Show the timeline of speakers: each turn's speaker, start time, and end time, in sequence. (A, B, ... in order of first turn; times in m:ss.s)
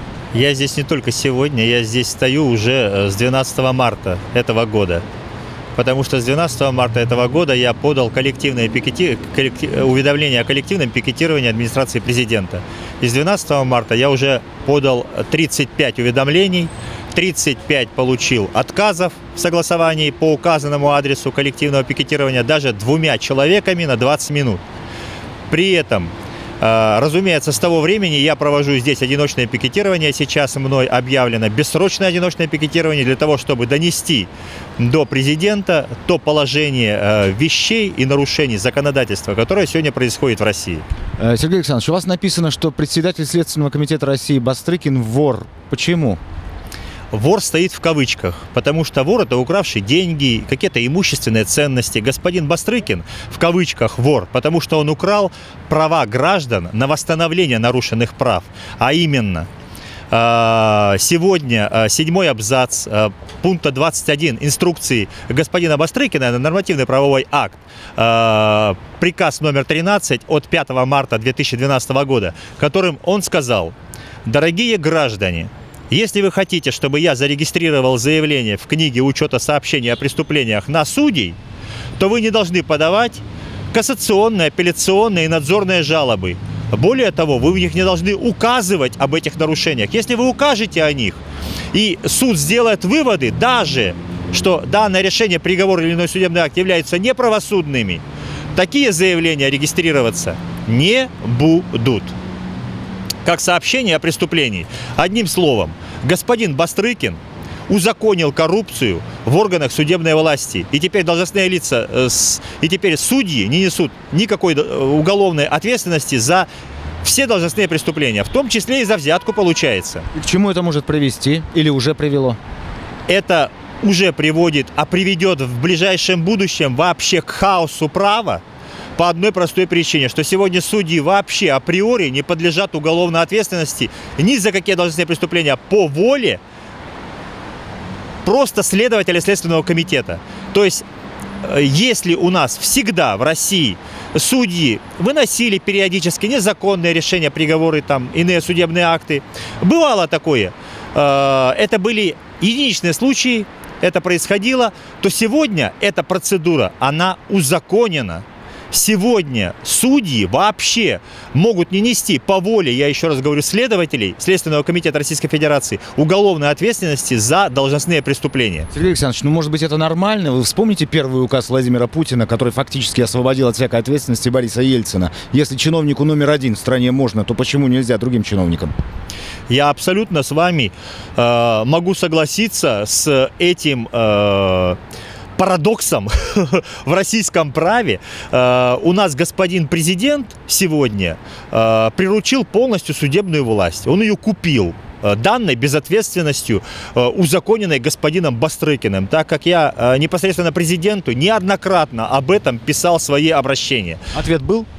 0:00.3-0:05.0 A
0:05.8-0:24.6 A
0:25.5-0:40.8 A
0:41.2-0:46.2 B
0:47.1-0:59.5 A
1:00.1-1:21.4 A
1:22.0-1:31.2 A
1:31.7-1:38.0 A
1:38.6-1:42.1 A
1:43.2-1:56.5 A
1:57.0-2:00.1 A
2:00.1-2:02.4 B
2:03.1-2:08.4 A
2:09.0-2:16.4 A
2:18.2-2:20.9 A
2:21.4-2:48.7 A
2:48.7-2:58.7 B
2:59.5-3:04.8 A
3:05.4-3:24.0 A
3:24.1-3:24.7 B